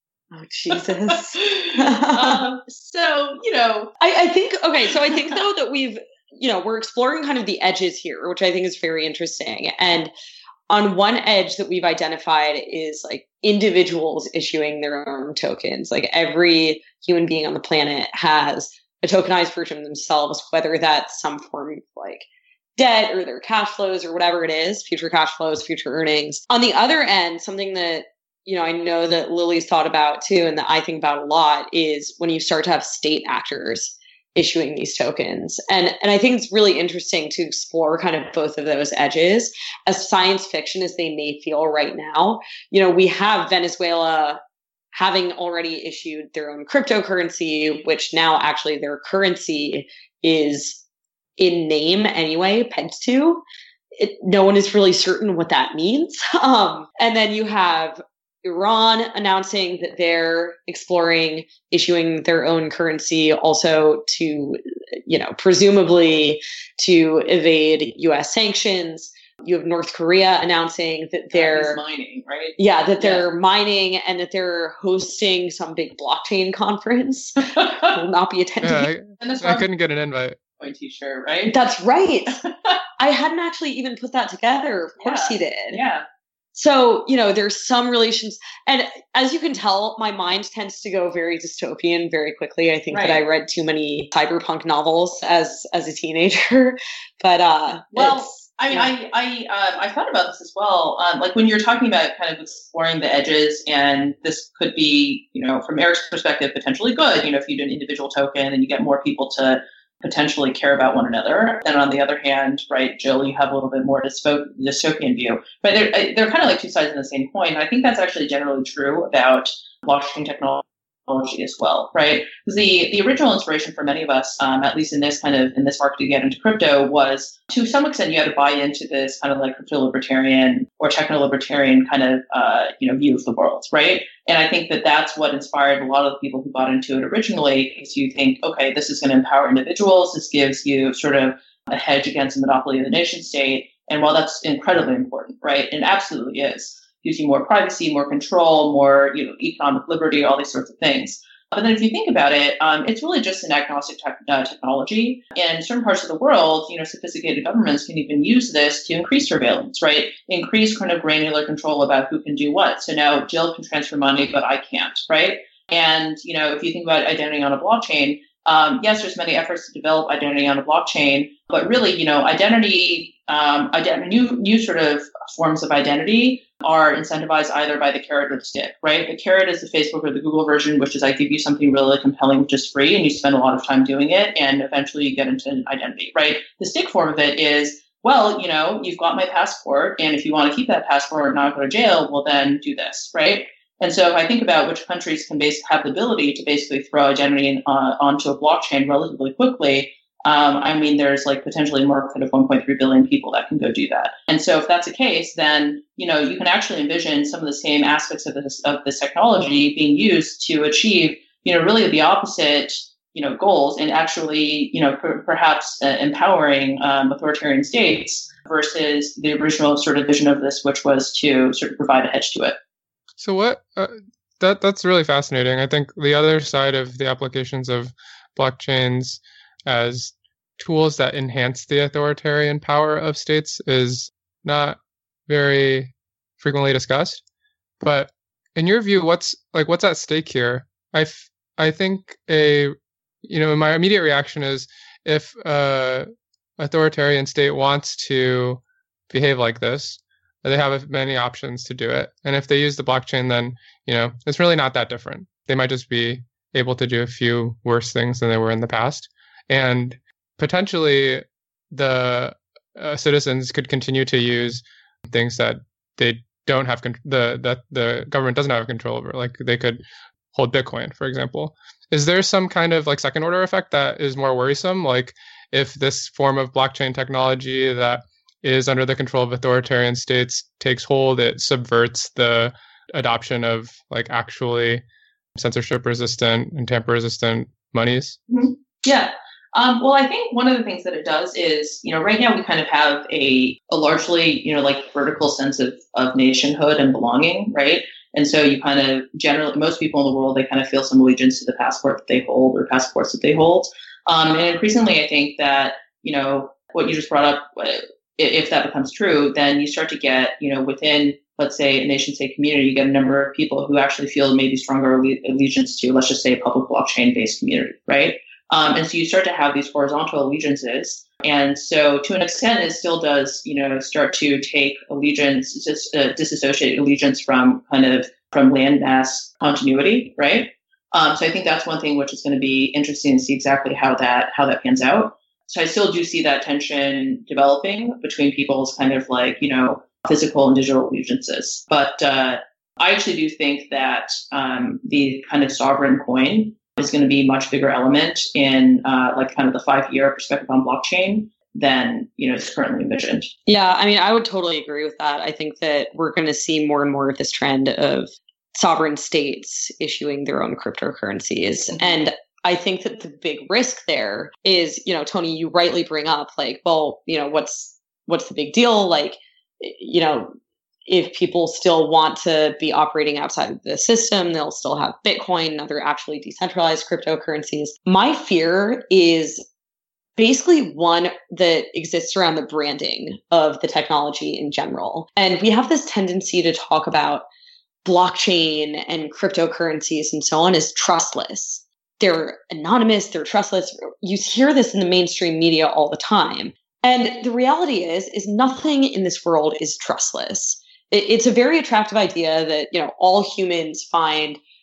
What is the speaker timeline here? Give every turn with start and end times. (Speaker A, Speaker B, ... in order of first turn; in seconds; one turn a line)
Speaker A: 0.3-2.4
Speaker B: 0.7-4.0
Speaker A: 4.0-10.1
Speaker A: 10.7-22.2
Speaker A: 22.8-44.4
Speaker A: 44.9-50.8
Speaker A: 51.4-53.4
Speaker A: 54.0-71.8
Speaker B: 71.3-73.2
Speaker A: 72.6-78.9
Speaker B: 77.6-77.9
Speaker C: 78.6-80.4
Speaker B: 79.2-79.6
Speaker B: 80.6-81.5
Speaker A: 81.5-82.4
Speaker A: 83.0-85.8
Speaker B: 85.0-86.0
Speaker A: 86.5-98.9
Speaker B: 92.9-93.2
Speaker B: 97.9-222.6
Speaker C: 223.2-234.8
Speaker C: 235.3-237.2
Speaker C: 237.8-269.8
Speaker C: 270.3-284.8
Speaker C: 285.4-288.2
Speaker B: 288.3-353.3
Speaker A: 353.5-370.3
Speaker A: 370.9-379.4
Speaker A: 380.1-387.2
Speaker A: 387.8-404.4